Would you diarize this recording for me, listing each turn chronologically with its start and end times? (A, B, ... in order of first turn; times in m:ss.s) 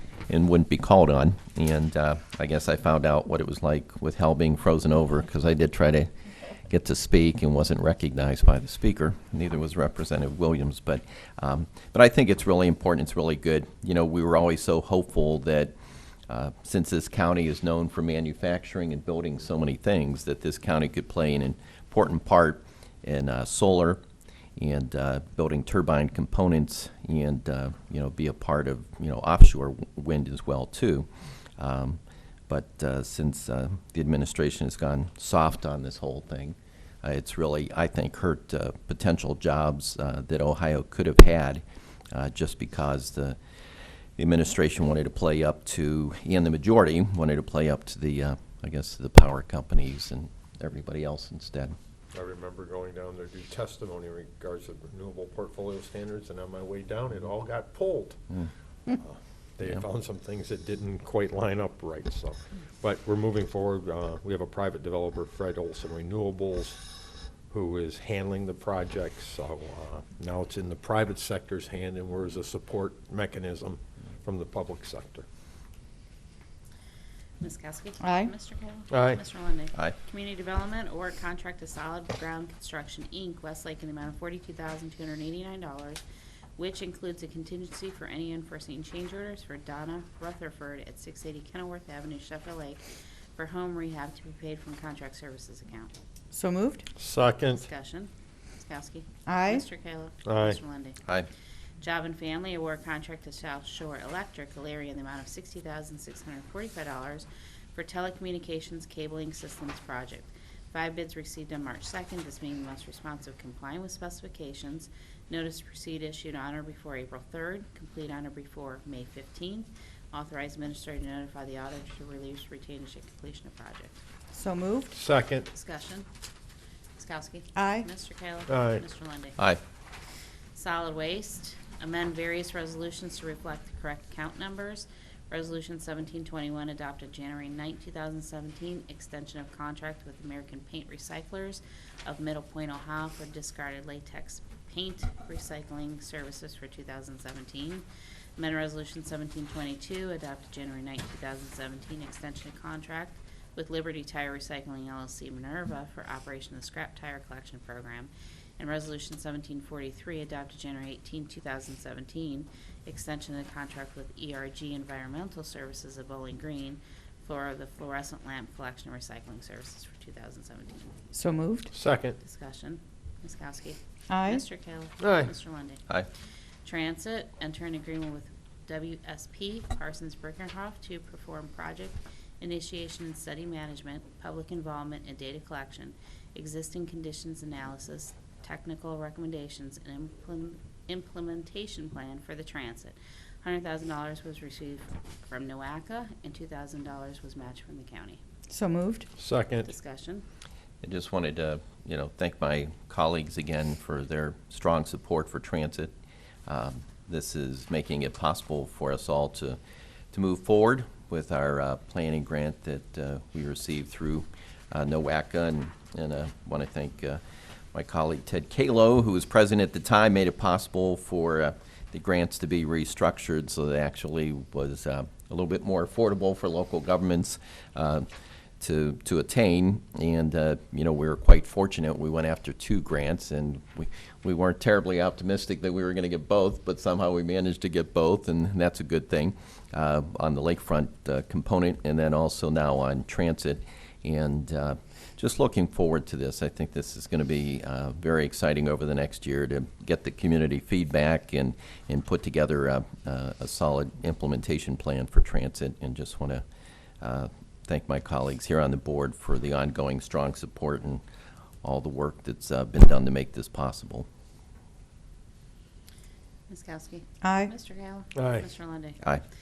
0:00.3-0:06.1 A
0:06.7-0:15.7 A
0:16.3-0:24.0 A
0:24.6-0:31.1 A
0:31.6-0:43.4 A
0:44.2-0:51.8 A
0:52.1-0:58.2 B
0:58.9-1:06.9 B
1:07.5-1:15.3 B
1:17.4-1:26.0 C
1:18.0-1:18.3 D
1:18.9-1:19.2 B
1:26.6-1:32.8 C
1:33.4-1:35.9 C
1:36.3-1:36.9 D
1:37.0-1:37.7 B
1:37.6-1:41.0 C
1:39.3-1:39.6 D
1:40.3-1:40.6 B
1:41.8-2:04.0 C
2:04.3-2:04.9 D
2:04.9-2:05.5 B
2:05.5-2:06.0 C
2:07.0-2:09.4 C
2:07.6-2:07.9 D
2:08.5-2:08.8 B
2:10.5-2:27.8 C
2:28.4-2:50.9 C
2:51.1-2:51.7 D
2:51.7-2:52.2 B
2:52.2-2:55.8 C
2:54.1-2:54.4 D
2:55.0-2:55.3 B
2:56.6-3:18.2 C
3:18.5-3:19.1 D
3:19.2-3:19.7 B
3:19.6-3:20.2 C
3:20.8-3:25.9 A
3:26.5-3:29.6 A
3:30.1-3:37.2 A
3:37.7-3:48.1 A
3:48.6-4:16.4 A
4:17.0-4:21.0 A
4:21.6-4:24.1 A
4:26.5-4:29.0 C
4:27.2-4:27.5 D
4:28.2-4:28.4 B